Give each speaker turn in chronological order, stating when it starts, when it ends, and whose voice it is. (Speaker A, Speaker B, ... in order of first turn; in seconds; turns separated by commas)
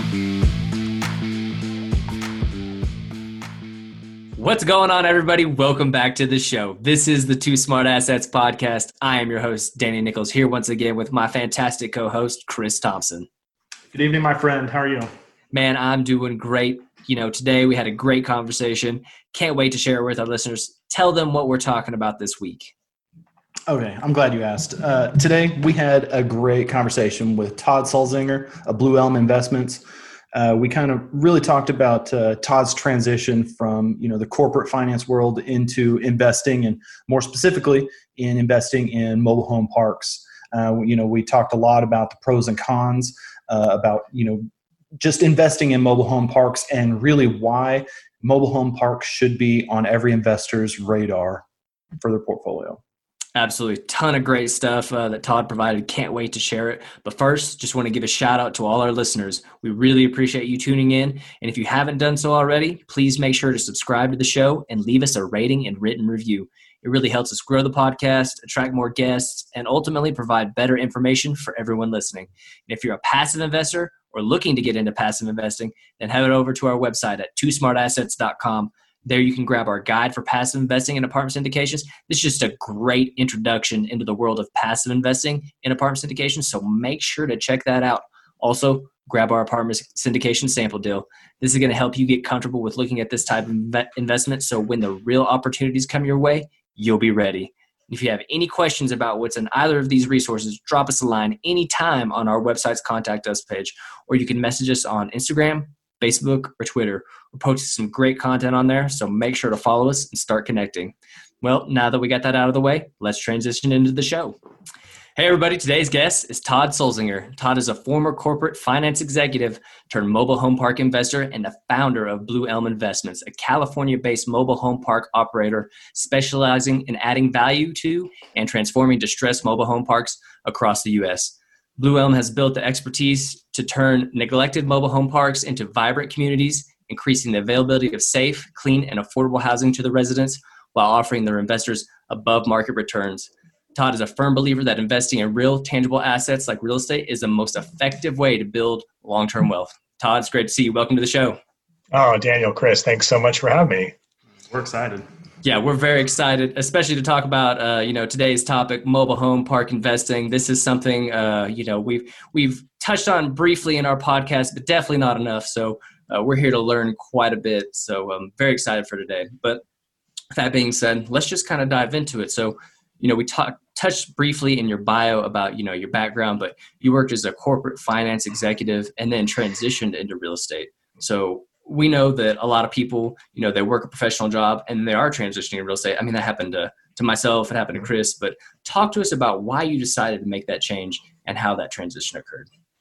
Speaker A: 4.4-13.3, Speaker B: 13.9-15.1, Speaker A: 15.5-22.7, Speaker B: 23.7-29.8, Speaker B: 30.3-44.5, Speaker B: 45.0-51.4, Speaker B: 52.0-52.8, Speaker A: 53.4-114.4, Speaker A: 115.2-151.4, Speaker C: 151.9-153.9, Speaker B: 154.5-155.0, Speaker A: 155.4-169.6, Speaker A: 170.3-192.5